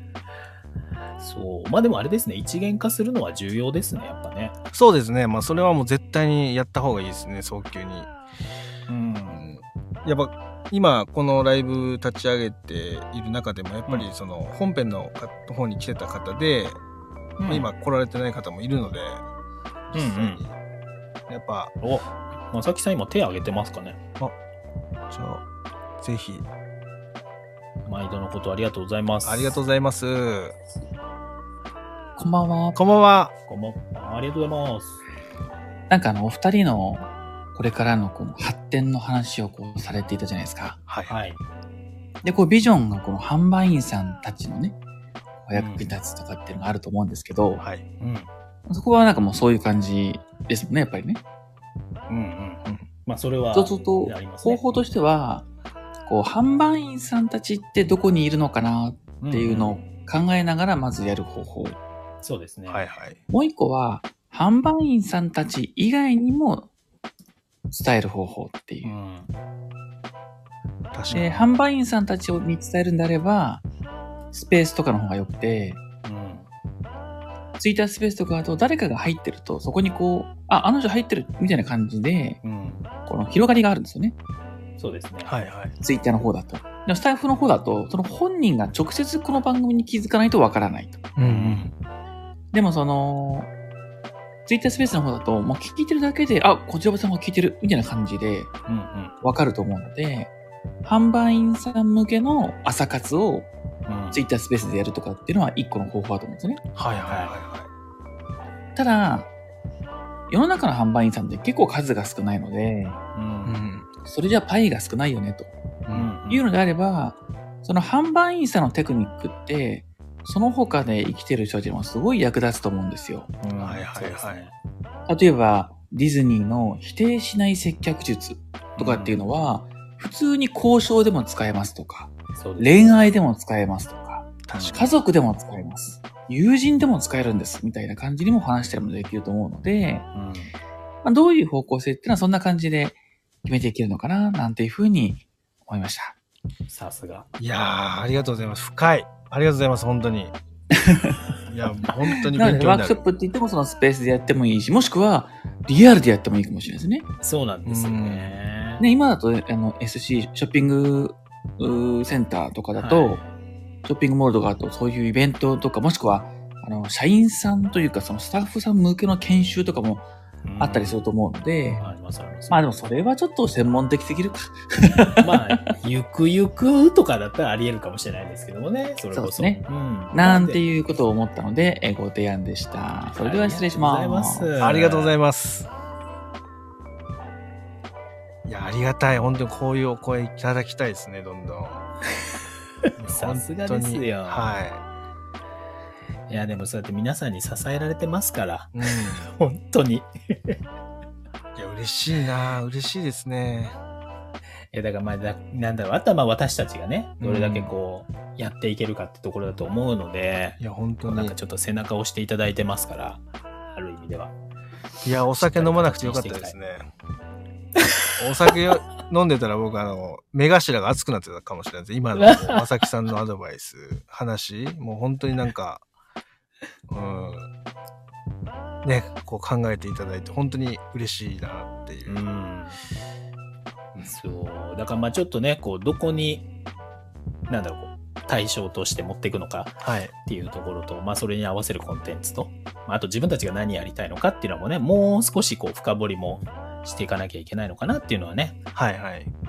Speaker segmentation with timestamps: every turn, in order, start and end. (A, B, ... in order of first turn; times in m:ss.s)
0:01.2-0:04.5 A
0:04.7-0:08.1 B
0:08.9-0:09.4 A
0:09.3-0:16.8 B
0:17.4-0:17.7 A
0:17.5-0:19.2 B
0:19.9-0:20.5 B
0:19.9-0:20.4 A
0:21.3-0:21.7 B
0:21.8-0:24.0 A
0:25.1-0:25.4 B
0:26.0-0:26.4 B
0:27.8-0:29.6 A
0:29.2-0:30.6 B
0:32.2-0:32.8 C
0:32.7-0:33.3 B
0:33.5-0:35.0 A
0:35.9-0:40.8 C
0:40.9-0:41.1 B
0:41.1-0:41.4 A
0:42.2-0:44.8 C
0:45.4-0:47.6 C
0:45.5-0:45.9 A
0:48.0-0:48.3 A
0:48.7-0:51.2 C
0:52.1-0:54.8 A
0:53.5-0:55.4 C
0:56.0-1:01.8 C
0:59.2-0:59.9 A
1:02.2-1:02.8 A
1:02.7-1:03.2 B
1:03.3-1:06.7 C
1:07.7-1:08.9 C
1:08.8-1:09.3 A
1:10.9-1:11.4 B
1:11.1-1:13.6 C
1:14.3-1:15.8 C
1:16.0-1:16.5 A
1:17.6-1:22.4 C
1:22.4-1:22.9 A
1:23.1-1:24.2 C
1:24.8-1:25.3 A
1:25.3-1:25.7 B
1:25.8-1:31.1 C
1:31.2-1:31.7 B
1:31.2-1:31.7 A
1:32.5-1:33.5 C
1:34.4-1:38.5 C
1:38.7-1:39.1 A
1:39.2-1:40.3 C
1:40.8-1:43.5 C
1:43.9-1:44.2 A
1:44.1-1:46.6 C
1:46.7-1:47.7 B
1:47.1-1:47.3 A
1:48.8-1:49.3 C
1:50.3-1:53.0 C
1:52.8-1:53.6 A
1:53.4-1:53.9 B
1:54.0-1:55.5 C
1:55.9-1:56.4 A
1:56.3-2:03.3 C
2:03.4-2:04.5 A
2:03.6-2:04.4 B
2:05.1-2:20.0 C
2:08.8-2:09.2 A
2:12.4-2:12.9 A
2:14.5-2:14.8 B
2:14.5-2:14.9 A
2:20.1-2:20.5 A
2:21.0-2:26.1 C
2:26.7-2:27.3 A
2:27.4-2:30.3 B
2:30.7-2:31.2 C
2:31.5-2:33.0 B
2:32.3-2:37.1 C
2:37.2-2:38.8 A
2:37.6-2:38.3 B
2:38.8-2:43.2 C
2:42.8-2:43.3 A
2:43.8-2:50.1 C
2:50.4-2:51.0 A
2:50.6-2:51.8 C
2:51.8-2:52.7 A
2:52.5-2:55.3 C
2:55.1-3:00.7 A
2:59.1-3:04.5 C
3:03.1-3:05.1 A
3:04.6-3:05.7 B
3:08.4-3:11.8 B
3:13.0-3:14.8 B
3:13.0-3:14.5 A
3:16.3-3:20.6 A
3:18.8-3:19.3 B
3:21.6-3:23.8 B
3:24.7-3:34.3 A
3:27.2-3:27.7 B
3:30.6-3:31.3 B
3:35.0-3:36.9 B
3:35.4-3:36.5 A
3:38.2-3:45.8 B
3:42.1-3:42.6 A
3:46.9-3:47.5 B
3:48.8-3:52.2 B
3:52.0-3:52.8 A
3:53.9-3:56.5 A
3:57.5-4:08.6 A
3:59.8-4:00.1 B
4:08.7-4:09.3 B